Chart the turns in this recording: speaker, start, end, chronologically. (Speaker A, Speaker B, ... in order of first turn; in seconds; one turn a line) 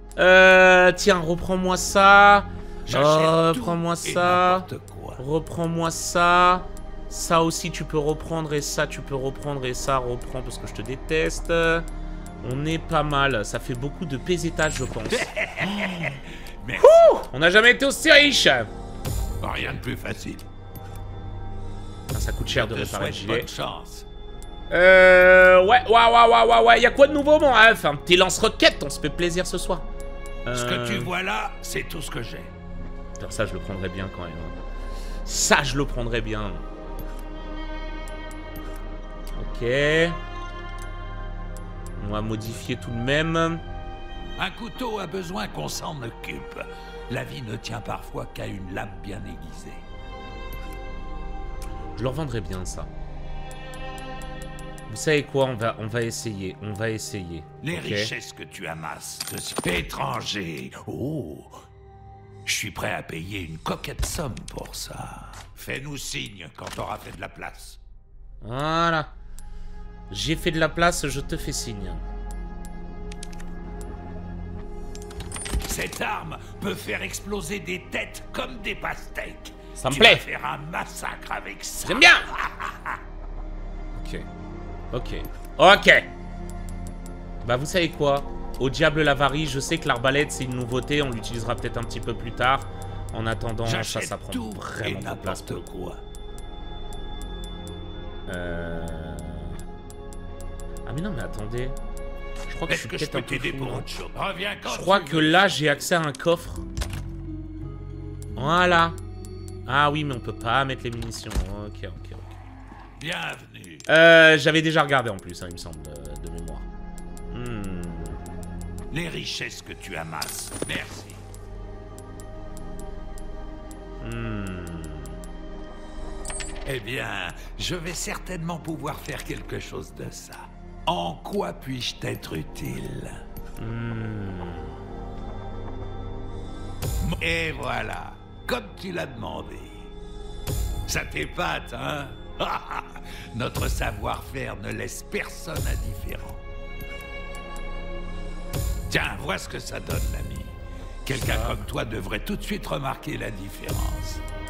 Speaker A: 0.2-11.9
Speaker B: 2.9-5.2
Speaker A: 12.4-16.2
Speaker B: 15.1-17.1
Speaker A: 16.8-18.7
Speaker B: 19.4-20.5
Speaker A: 22.1-23.5
Speaker B: 22.5-24.1
Speaker A: 24.7-29.9
Speaker A: 30.4-31.1
Speaker B: 30.6-32.5
Speaker A: 33.2-34.5
Speaker A: 35.2-36.6
Speaker A: 39.3-40.2
Speaker A: 42.0-43.6
Speaker B: 44.4-49.8
Speaker A: 52.0-52.9
Speaker A: 54.9-58.1
Speaker B: 57.6-61.6
Speaker B: 62.5-67.8
Speaker A: 68.4-69.1
Speaker A: 70.1-72.0
Speaker B: 75.7-83.0
Speaker A: 79.8-80.2
Speaker A: 81.8-82.3
Speaker A: 84.0-84.3
Speaker A: 84.9-86.1
Speaker A: 87.4-95.7
Speaker B: 93.7-96.0
Speaker A: 98.3-99.6
Speaker A: 100.8-101.8
Speaker A: 102.5-103.9
Speaker B: 102.7-105.7
Speaker A: 104.7-106.7
Speaker A: 108.4-109.0
Speaker A: 109.7-112.4
Speaker B: 113.0-113.9
Speaker A: 113.9-116.7
Speaker A: 117.3-118.2
Speaker B: 118.9-121.2
Speaker A: 124.0-125.2
Speaker B: 126.7-133.2
Speaker A: 133.6-134.8
Speaker B: 137.0-139.9
Speaker B: 140.9-146.4
Speaker B: 148.9-154.2
Speaker A: 151.2-151.7